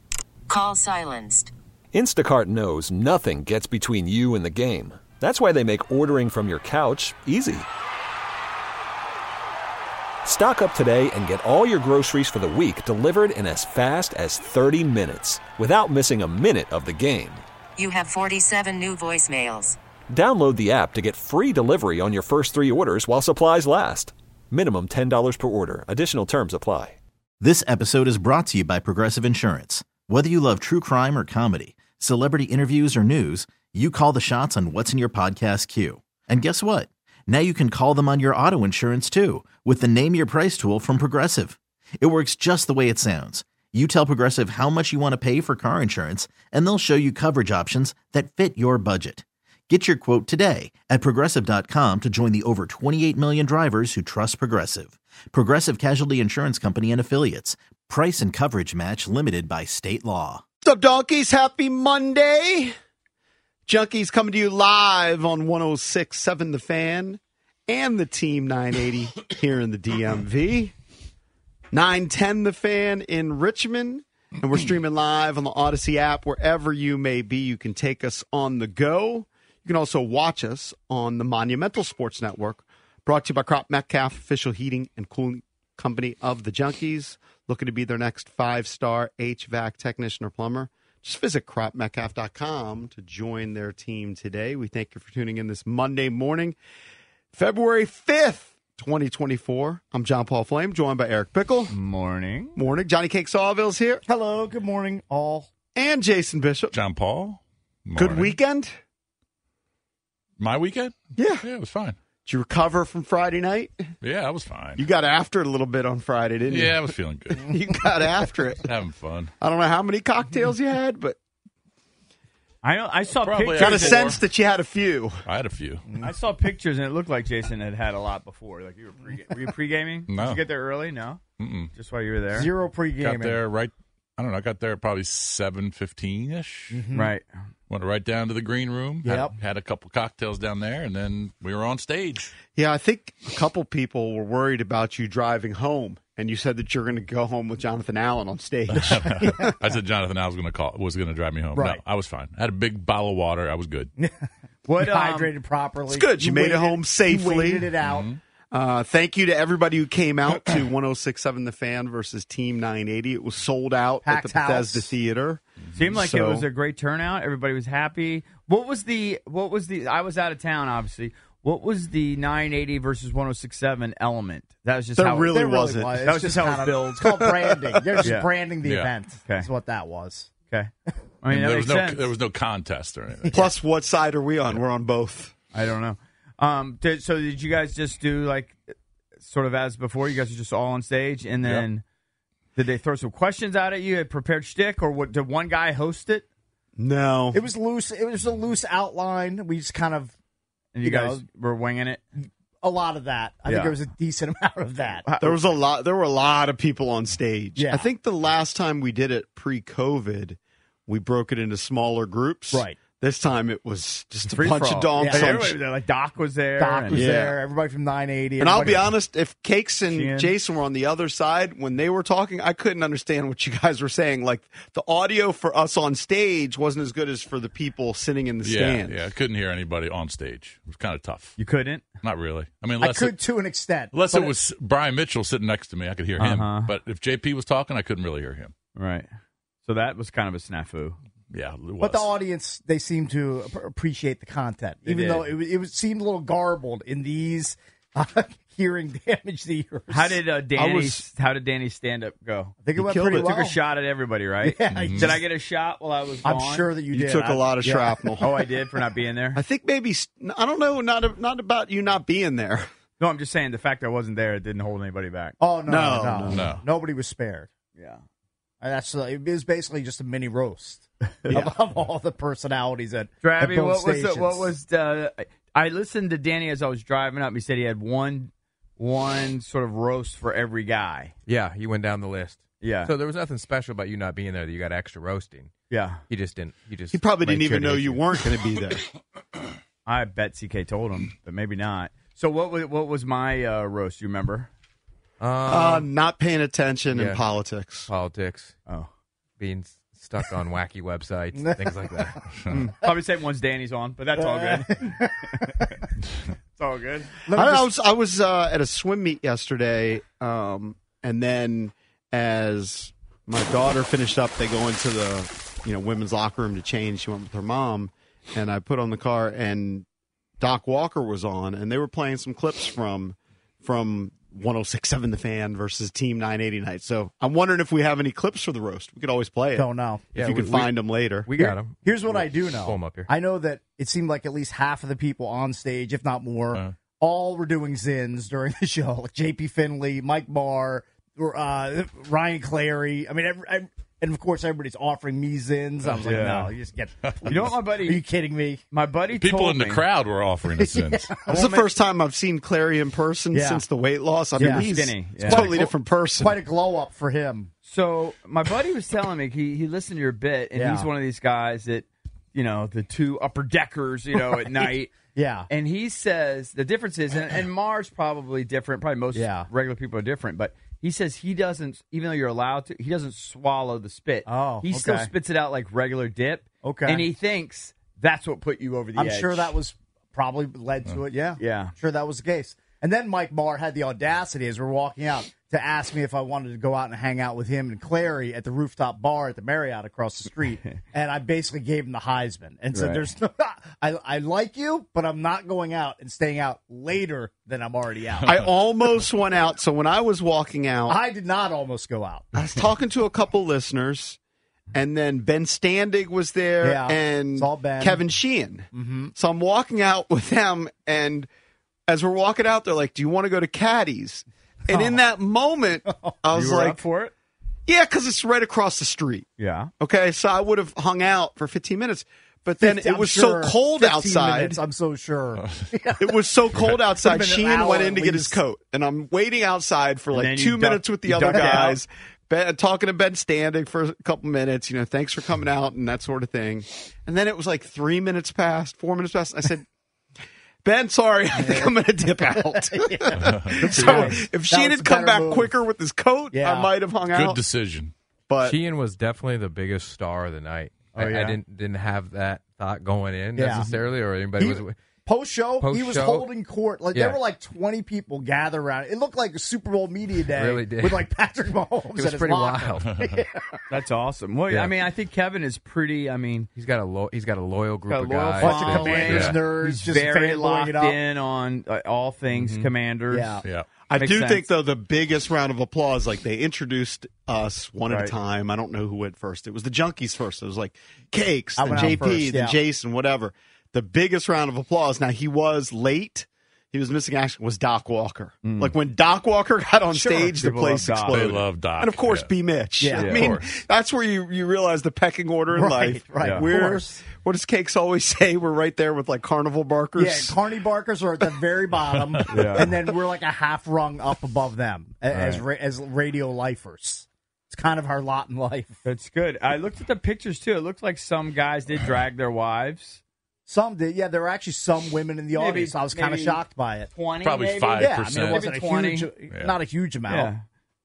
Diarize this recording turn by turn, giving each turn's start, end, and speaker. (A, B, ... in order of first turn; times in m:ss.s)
0:00.5-0:01.5 A
0:01.9-0:07.7 B
0:10.2-0:17.4 B
0:17.8-0:19.8 A
0:20.1-0:27.0 B
0:27.4-1:00.4 C
1:00.6-1:02.7 D
1:03.7-1:10.7 D
1:11.7-1:36.6 D
1:37.3-1:41.7 D
1:41.7-1:42.6 E
1:42.6-1:44.0 D
1:44.0-1:45.5 F
1:45.7-1:46.8 D
1:46.7-1:48.4 G
1:48.0-1:48.7 D
1:50.4-1:52.0 G
1:51.2-1:51.4 D
1:52.2-1:53.7 D
1:54.0-1:54.8 G
1:54.8-1:58.7 D
1:56.5-1:57.6 G
1:58.6-1:59.3 G
1:59.4-2:01.2 D
2:02.6-2:04.1 E
2:03.2-2:04.2 G
2:03.6-2:05.2 D
2:05.2-2:05.8 G
2:05.9-2:06.1 F
2:06.0-2:11.2 E
2:10.1-2:10.4 G
2:11.4-2:11.7 G
2:11.7-2:12.5 E
2:12.3-2:13.4 F
2:13.0-2:16.8 G
2:16.7-2:17.1 F
2:16.9-2:17.3 E
2:17.7-2:22.3 G
2:19.0-2:19.3 F
2:22.5-2:29.5 D
2:28.7-2:33.9 G
2:29.2-2:29.5 F
2:31.5-2:31.8 F
2:34.0-2:38.1 F
2:34.7-2:35.3 E
2:35.9-2:37.7 D
2:37.8-2:38.2 G
2:38.5-2:46.4 D
2:44.0-2:44.9 F
2:45.7-2:55.3 E
2:55.0-2:56.1 D
2:55.3-3:00.3 F
2:56.0-2:57.0 E
2:57.0-2:58.0 D
2:58.0-2:58.3 E
2:58.6-2:58.9 G
3:01.2-3:02.0 E
3:01.3-3:03.4 G
3:03.3-3:05.3 D
3:05.5-3:11.8 E
3:12.6-3:16.2 E
3:16.8-3:17.4 D
3:17.3-3:20.1 F
3:20.7-3:22.0 E
3:20.8-3:21.2 F
3:22.6-3:25.0 F
3:23.4-3:23.7 E
3:25.0-3:25.4 E
3:25.2-3:35.6 D
3:27.6-3:27.9 F
3:32.5-3:32.8 F
3:34.3-3:37.0 E
3:35.0-3:35.6 F
3:36.6-3:38.9 F
3:36.9-3:37.4 D
3:38.4-3:49.0 D
3:39.9-3:40.3 E
3:48.4-3:51.4 G
3:51.4-3:51.8 E
3:52.0-3:53.2 G
3:52.8-3:54.3 F
3:53.9-3:58.5 G
3:56.2-3:56.7 E
3:58.7-3:59.1 E
3:59.6-4:01.0 E
4:01.3-4:02.1 G
4:01.8-4:10.2 F
4:04.8-4:05.3 E
4:09.9-4:16.7 E
4:10.6-4:11.0 D
4:12.6-4:13.6 F
4:12.8-4:13.1 D
4:14.4-4:15.2 F
4:14.7-4:15.2 G
4:16.2-4:18.1 F
4:16.9-4:18.3 D
4:18.2-4:19.4 E
4:19.3-4:22.7 D
4:23.0-4:25.4 E
4:25.4-4:27.5 F
4:25.7-4:26.5 D
4:26.3-4:26.6 G
4:27.8-4:28.0 E
4:28.6-4:34.5 F
4:31.3-4:31.5 D
4:33.2-4:41.1 E
4:41.3-4:45.5 H
4:42.6-4:42.9 E
4:45.7-4:46.0 E
4:46.1-4:47.7 H
4:46.9-4:48.8 D
4:47.2-4:48.0 E
4:49.8-4:54.5 E
4:55.2-4:55.9 H
4:55.4-4:57.9 D
4:56.9-4:57.2 H
4:57.9-4:58.6 H
4:59.4-5:02.2 H
5:01.4-5:02.2 F
5:02.5-5:05.5 E
5:04.2-5:05.8 F
5:06.6-5:07.1 E
5:07.3-5:07.7 F
5:07.3-5:19.8 D
5:20.4-5:31.3 D
5:29.6-5:30.1 F
5:30.1-5:33.1 H
5:31.3-5:48.6 F
5:46.0-5:46.5 E
5:47.2-5:48.0 E
5:48.7-5:49.8 E
5:49.2-5:51.1 G
5:50.6-5:51.5 F
5:51.2-5:51.6 E
5:51.3-5:56.4 D
5:53.3-5:53.6 F
5:54.4-5:57.5 F
5:54.4-5:55.5 E
5:57.6-6:04.9 E
6:00.5-6:00.9 F
6:04.2-6:05.5 F
6:05.5-6:19.6 E
6:09.1-6:09.5 F
6:14.2-6:15.1 F
6:16.6-6:17.0 F
6:19.0-6:38.4 F
6:21.4-6:21.7 E
6:32.7-6:33.0 E
6:38.2-6:41.0 D
6:40.9-6:42.3 F
6:42.3-6:44.2 D
6:44.7-6:51.3 D
6:46.6-6:48.0 F
6:48.7-6:49.1 F
6:51.9-6:56.8 D
6:54.7-6:55.0 F
6:55.8-6:56.1 F
6:56.3-6:57.1 E
6:57.7-6:59.3 D
6:59.4-6:59.7 E
6:59.8-7:04.6 D
7:02.6-7:06.2 F
7:05.4-7:05.7 G
7:06.0-7:19.6 D
7:06.9-7:08.4 F
7:10.1-7:11.8 E
7:11.2-7:11.7 F
7:20.6-7:27.4 D
7:21.3-7:25.5 F
7:23.1-7:23.6 G
7:23.8-7:24.2 E
7:26.3-7:26.7 F
7:27.1-7:27.9 G
7:28.3-7:28.6 D
7:28.4-7:34.8 H
7:31.0-7:31.3 E
7:31.0-7:31.3 F
7:33.3-7:43.6 F
7:35.6-7:36.3 H
7:36.9-7:37.2 H
7:40.3-7:41.1 H
7:41.9-7:43.0 H
7:43.7-7:46.5 E
7:46.5-7:49.4 H
7:47.9-7:53.4 E
7:48.4-7:51.0 F
7:49.1-7:49.4 G
7:52.3-7:52.7 H
7:53.1-7:53.4 F
7:53.9-8:20.4 D
7:54.0-7:54.5 E
7:57.9-7:58.1 E
8:01.6-8:02.6 F
8:08.4-8:08.7 E
8:09.9-8:10.8 F
8:10.4-8:11.2 E
8:11.1-8:12.3 G
8:12.8-8:13.3 F
8:12.9-8:13.3 E
8:13.0-8:13.5 G
8:15.5-8:17.0 F
8:16.2-8:16.5 E
8:19.9-8:28.8 F
8:22.3-8:22.7 E
8:25.1-8:25.4 E
8:28.8-8:33.0 E
8:33.5-8:36.9 F
8:35.3-8:39.1 E
8:37.2-8:38.4 G
8:37.8-8:40.3 F
8:40.1-8:40.4 E